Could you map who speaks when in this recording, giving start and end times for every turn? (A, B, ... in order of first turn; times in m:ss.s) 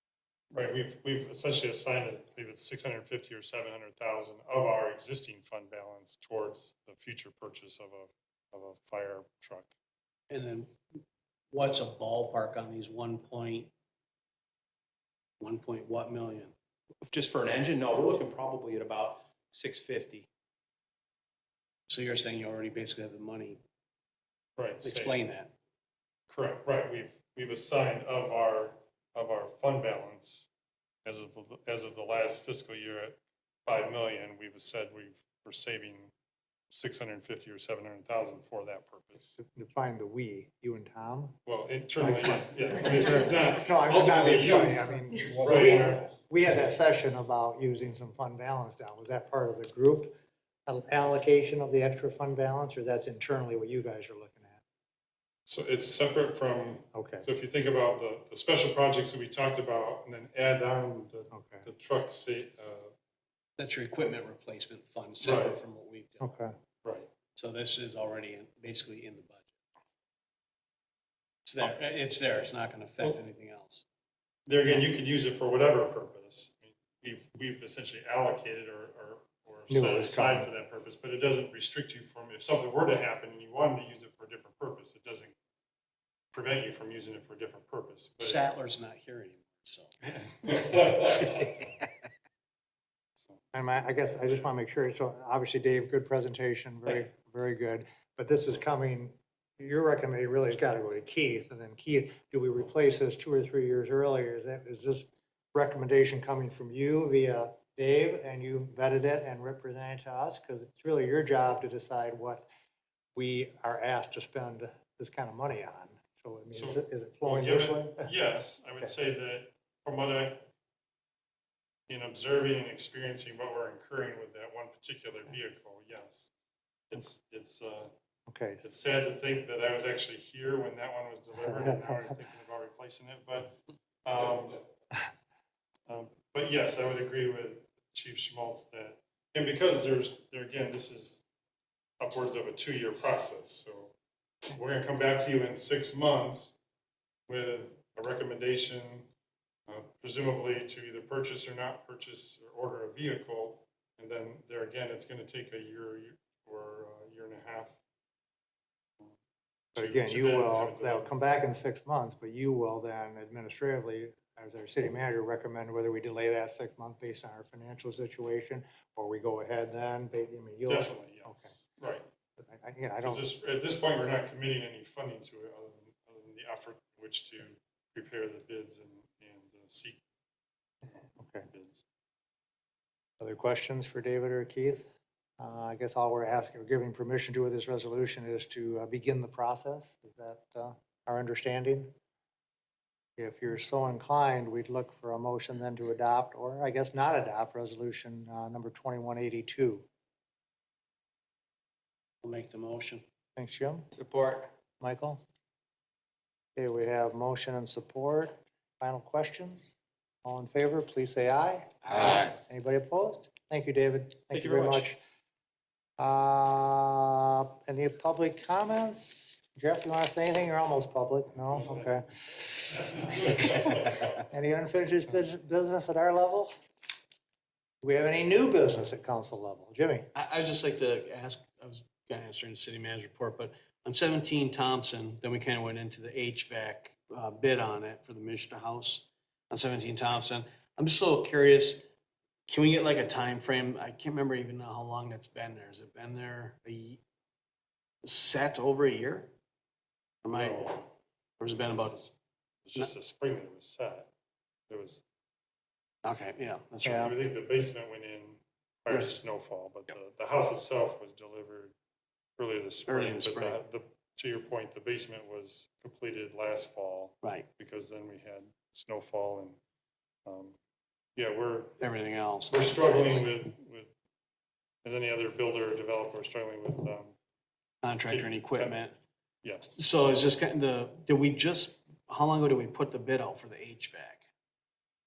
0:00.5-0:09.7 A
0:10.3-0:10.8 B
0:11.5-0:13.7 B
0:15.4-0:16.5 B
0:17.1-0:20.3 C
0:21.9-0:23.6 B
0:24.6-0:25.2 A
0:24.8-0:25.5 B
0:26.3-0:30.5 A
0:31.0-0:36.1 A
0:36.7-0:39.3 A
0:39.4-0:41.4 D
0:41.4-0:46.1 A
0:42.0-0:50.1 D
0:50.7-0:54.6 D
0:55.5-1:02.9 A
0:56.9-0:57.3 D
1:01.3-1:01.7 D
1:03.6-1:06.3 B
1:05.2-1:05.6 A
1:06.2-1:06.5 D
1:06.8-1:07.1 A
1:07.4-1:09.5 B
1:11.4-1:13.8 B
1:14.5-1:25.3 A
1:19.7-1:20.5 D
1:26.3-1:28.4 A
1:28.2-1:30.2 B
1:30.7-1:31.0 A
1:33.5-1:52.5 D
1:53.2-1:58.1 D
1:56.5-2:00.5 A
2:01.9-2:06.3 A
2:06.9-2:07.9 A
2:08.3-2:08.6 D
2:08.6-2:14.6 A
2:11.4-2:12.1 D
2:15.9-2:21.2 A
2:22.0-2:23.9 A
2:24.5-2:26.6 A
2:27.3-2:29.1 A
2:29.7-2:37.8 A
2:39.7-2:41.1 A
2:39.8-2:51.5 D
2:50.7-2:52.0 A
2:52.4-2:53.2 D
2:53.0-3:00.0 A
3:00.8-3:01.5 D
3:01.5-3:01.8 A
3:03.2-3:04.9 D
3:05.4-3:11.9 D
3:13.2-3:19.8 D
3:22.2-3:23.0 B
3:23.4-3:23.9 D
3:24.0-3:24.5 C
3:24.8-3:25.2 D
3:26.6-3:29.7 D
3:30.2-3:35.0 D
3:34.3-3:34.8 C
3:36.0-3:46.5 D
3:47.8-3:50.1 D
3:50.1-4:01.9 B
4:02.5-4:07.0 B
4:08.0-4:09.3 B
4:10.2-4:10.9 B
4:10.3-4:10.8 A
4:11.4-4:12.0 B
4:11.5-4:12.1 A
4:12.6-4:14.1 A
4:14.7-4:15.0 A
4:16.0-4:17.1 B
4:16.8-4:17.1 D
4:16.9-4:21.7 A
4:18.9-4:19.2 B
4:22.4-4:29.6 A
4:22.9-4:23.6 B
4:27.2-4:27.5 B
4:30.3-4:30.6 A
4:31.2-4:31.8 A
4:31.8-4:33.3 B
4:32.5-4:33.9 A
4:34.8-4:37.2 A
4:37.8-4:39.0 B
4:38.1-4:38.8 A
4:39.4-4:40.1 A
4:39.7-4:44.3 B